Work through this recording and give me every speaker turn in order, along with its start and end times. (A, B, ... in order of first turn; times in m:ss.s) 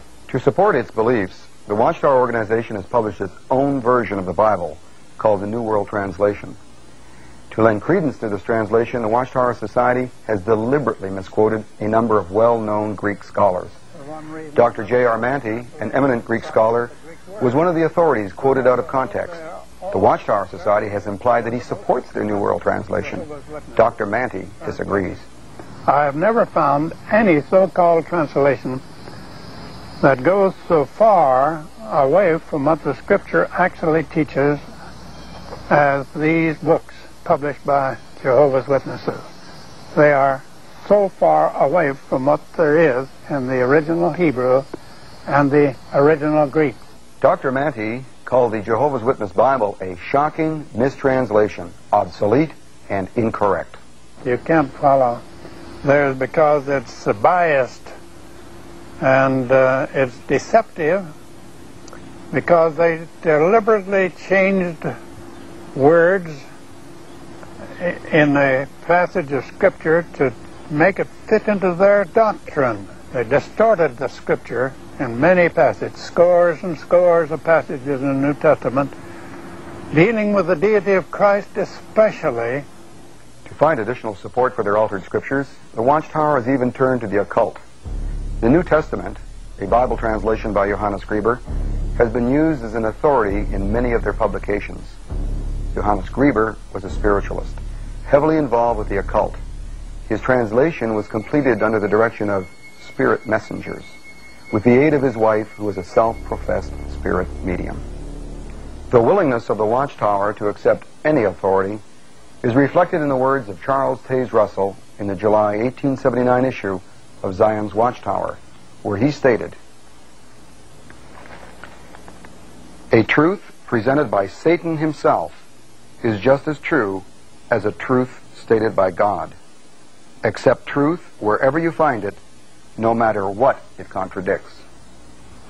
0:00.3-0:06.6 A
0:07.5-0:13.7 A
0:14.0-0:17.6 B
0:14.5-0:19.4 A
0:18.4-0:20.4 B
0:19.9-0:25.2 A
0:21.4-0:21.9 B
0:23.0-0:23.8 B
0:25.9-0:28.8 B
0:30.0-0:34.6 B
0:35.7-0:39.3 B
0:39.9-0:44.7 B
0:45.3-0:46.8 B
0:47.2-0:53.8 A
0:54.2-0:55.2 B
0:55.8-0:57.9 B
0:59.0-1:01.1 B
1:02.3-1:04.9 B
1:05.7-1:06.4 B
1:07.8-1:18.9 B
1:19.9-1:22.6 B
1:23.4-1:27.6 A
1:28.4-1:31.4 A
1:32.0-1:35.0 A
1:35.7-1:39.4 A
1:40.1-1:43.9 A
1:44.5-1:47.8 A
1:48.9-1:51.8 A
1:52.4-1:59.6 A
2:02.9-2:05.4 A
2:06.0-2:09.3 A
2:10.2-2:12.2 A
2:12.8-2:14.6 A